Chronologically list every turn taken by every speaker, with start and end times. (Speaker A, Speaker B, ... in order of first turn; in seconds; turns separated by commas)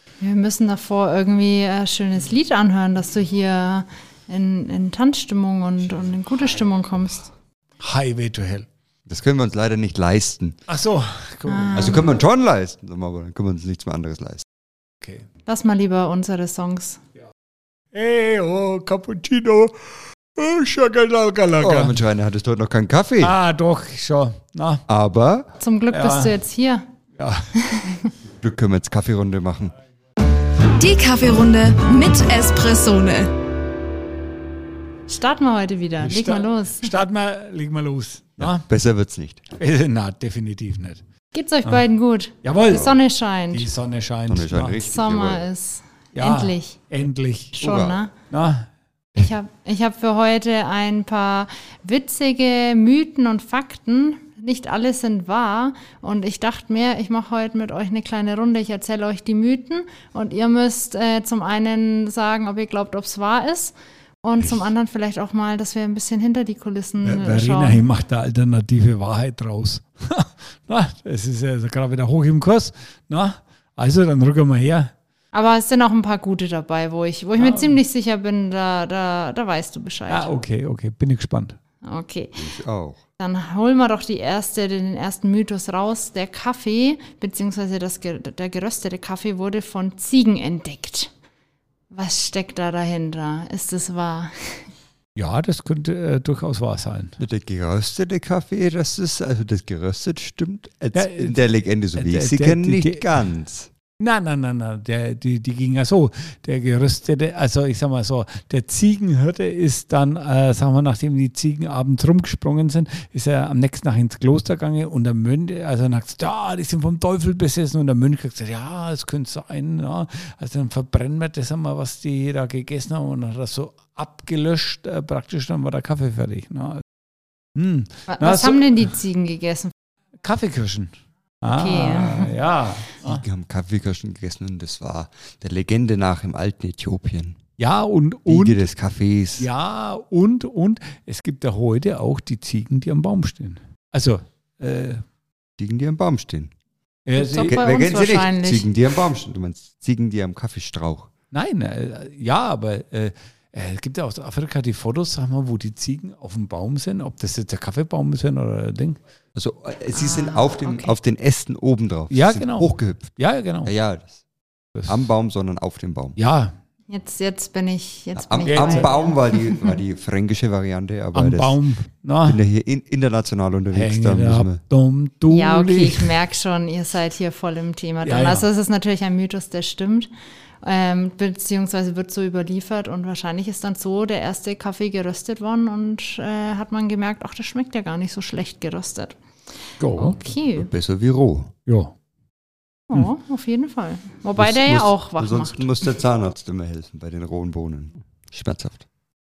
Speaker A: 0.2-7.3, Speaker B: 7.8-8.7, Speaker C: 9.1-10.6, Speaker B: 10.7-12.1, Speaker A: 11.5-12.1, Speaker C: 11.8-14.5, Speaker B: 15.0-15.3, Speaker A: 15.5-17.0, Speaker B: 17.9-22.0, Speaker C: 21.6-23.4, Speaker B: 23.2-24.9, Speaker C: 24.9-25.5, Speaker A: 25.6-26.8, Speaker B: 25.9-26.3, Speaker B: 27.2-27.5, Speaker A: 27.6-28.1, Speaker C: 28.4-29.7, Speaker A: 30.8-33.3, Speaker A: 35.1-36.9, Speaker B: 36.0-38.7, Speaker C: 38.4-39.5, Speaker B: 39.6-41.0, Speaker A: 41.3-43.7, Speaker B: 42.4-43.0, Speaker C: 42.7-42.9, Speaker B: 43.5-44.8, Speaker C: 44.3-45.4, Speaker A: 44.8-46.8, Speaker B: 46.1-47.7, Speaker A: 47.6-48.1, Speaker C: 47.6-48.0, Speaker B: 48.3-48.7, Speaker A: 49.2-67.8, Speaker B: 67.0-74.9, Speaker A: 75.3-80.3, Speaker B: 77.4-77.8, Speaker B: 80.1-81.6, Speaker A: 81.8-82.5, Speaker C: 82.4-83.0, Speaker A: 83.2-91.1, Speaker A: 91.9-94.7, Speaker B: 95.2-97.2, Speaker C: 97.2-103.7, Speaker B: 100.9-101.4, Speaker B: 101.9-103.2, Speaker B: 104.0-126.8, Speaker B: 127.5-128.7, Speaker A: 128.1-129.7, Speaker B: 130.2-133.2, Speaker A: 131.5-132.4, Speaker C: 133.0-137.4, Speaker B: 137.6-138.7, Speaker C: 138.3-139.5, Speaker B: 139.4-145.0, Speaker C: 145.6-146.5, Speaker B: 147.1-147.6, Speaker A: 147.2-148.7, Speaker C: 147.4-151.1, Speaker B: 151.3-159.0, Speaker C: 159.3-164.2, Speaker A: 159.9-160.9, Speaker B: 162.1-163.7, Speaker B: 164.8-165.1, Speaker C: 164.9-166.2, Speaker B: 166.2-166.6, Speaker A: 166.9-169.8, Speaker C: 168.2-171.6, Speaker B: 168.5-168.9, Speaker B: 171.1-172.4, Speaker C: 172.2-174.6, Speaker B: 173.7-176.1, Speaker A: 175.3-180.1, Speaker B: 178.0-178.5, Speaker A: 180.6-189.2, Speaker B: 189.8-190.3, Speaker A: 190.0-190.7, Speaker C: 190.5-191.5, Speaker B: 191.7-191.9, Speaker A: 192.9-195.9, Speaker C: 194.4-198.9